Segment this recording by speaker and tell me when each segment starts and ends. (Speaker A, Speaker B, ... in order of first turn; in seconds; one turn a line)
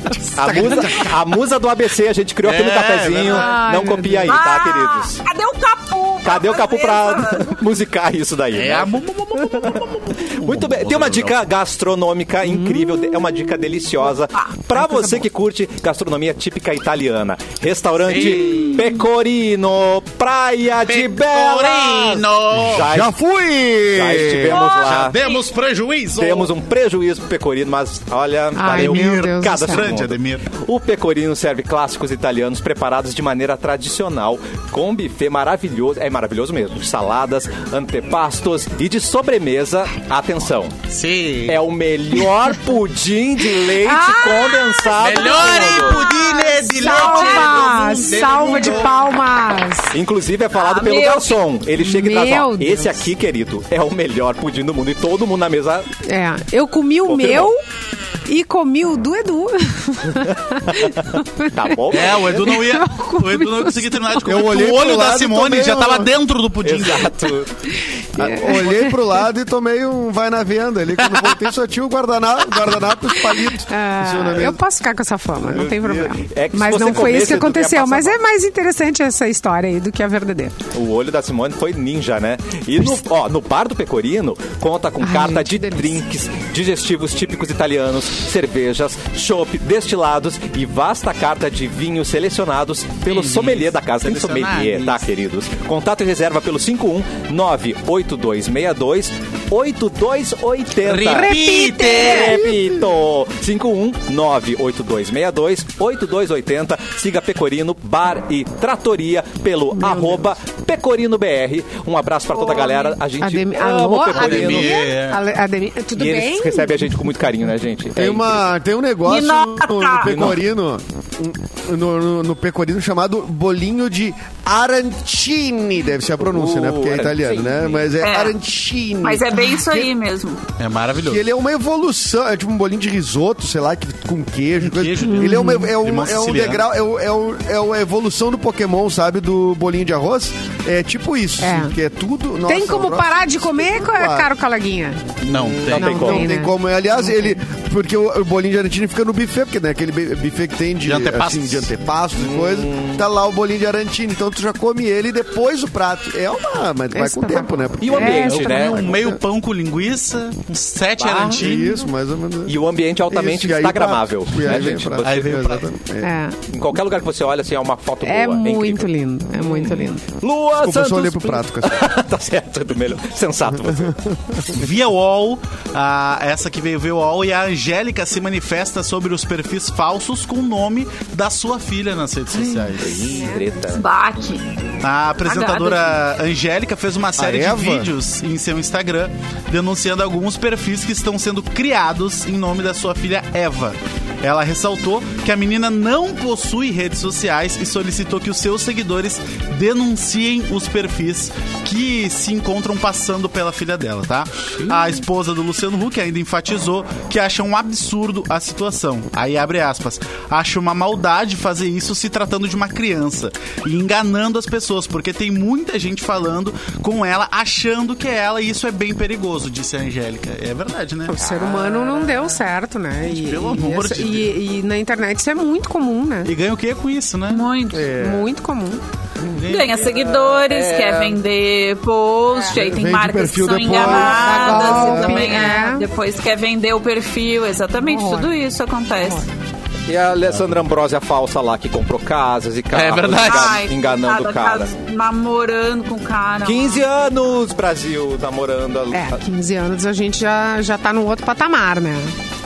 Speaker A: 0.3-0.8
Speaker B: 0.3-5.2
Speaker C: 2.4-3.5
Speaker A: 3.3-4.4
Speaker D: 4.3-7.6
Speaker B: 6.2-23.1
Speaker C: 8.5-11.4
Speaker A: 14.8-15.1
Speaker C: 18.1-18.8
Speaker C: 20.9-22.9
Speaker E: 22.8-24.7
Speaker B: 23.9-25.2
Speaker C: 24.5-26.5
Speaker D: 24.6-25.4
Speaker B: 26.2-40.8
Speaker A: 28.6-29.9
Speaker C: 28.7-30.5
Speaker C: 40.9-41.6
Speaker B: 41.5-46.1
Speaker A: 43.6-49.9
Speaker C: 45.0-49.0
Speaker D: 46.4-47.7
Speaker B: 49.9-55.9
Speaker D: 50.5-51.4
Speaker A: 51.8-53.1
Speaker A: 56.1-57.6
Speaker B: 57.1-57.5
Speaker A: 58.3-61.8
Speaker B: 60.2-62.5
Speaker C: 61.9-67.1
Speaker A: 62.3-64.4
Speaker E: 64.2-66.1
Speaker B: 66.6-67.5
Speaker A: 68.2-69.2
Speaker E: 68.2-74.6
Speaker A: 73.3-80.6
Speaker B: 75.5-78.2
Speaker B: 80.7-114.8
Speaker A: 85.0-86.0
Speaker C: 93.0-95.0
Speaker C: 100.8-102.5
Speaker A: 101.1-102.4
Speaker A: 109.8-110.3
Speaker D: 112.3-113.0
Speaker A: 113.2-116.8
Speaker C: 114.1-115.2
Speaker B: 116.0-118.4
Speaker E: 118.0-129.9
Speaker D: 119.0-120.3
Speaker B: 120.0-120.4
Speaker B: 126.2-127.9
Speaker D: 128.0-128.4
Speaker D: 129.0-130.4
Speaker C: 130.6-131.2
Speaker E: 131.0-144.3
Speaker C: 134.6-136.6
Speaker A: 135.1-135.7
Speaker A: 141.4-141.7
Speaker A: 142.5-145.2
Speaker C: 145.2-146.0
Speaker B: 145.3-146.3
Speaker A: 145.7-147.3
Speaker E: 145.8-159.2
Speaker C: 150.8-151.7
Speaker B: 152.2-153.0
Speaker A: 156.9-158.8
Speaker B: 157.8-158.9
Speaker C: 158.3-161.8
Speaker B: 161.0-161.5
Speaker E: 161.3-166.2
Speaker B: 162.5-165.3
Speaker C: 165.0-165.7
Speaker A: 166.0-166.4
Speaker B: 166.5-174.0
Speaker A: 168.0-170.1
Speaker E: 170.6-171.8
Speaker E: 173.5-174.5
Speaker C: 174.5-183.0
Speaker B: 182.8-183.8
Speaker A: 183.1-183.5
Speaker D: 183.7-184.5
Speaker C: 184.8-221.2
Speaker D: 185.2-186.0
Speaker E: 187.2-187.9
Speaker A: 221.1-226.3
Speaker B: 221.2-221.7
Speaker C: 223.1-224.3
Speaker C: 226.2-227.4
Speaker D: 227.3-227.9
Speaker E: 227.7-228.3
Speaker A: 227.9-228.8
Speaker C: 229.3-230.3
Speaker D: 229.5-239.3
Speaker B: 230.2-231.2
Speaker E: 232.5-235.4
Speaker A: 233.7-235.9
Speaker A: 237.8-238.3
Speaker A: 239.0-239.2
Speaker B: 239.9-244.7
Speaker C: 242.7-243.6
Speaker D: 243.2-246.8
Speaker B: 246.4-249.2
Speaker A: 248.9-252.1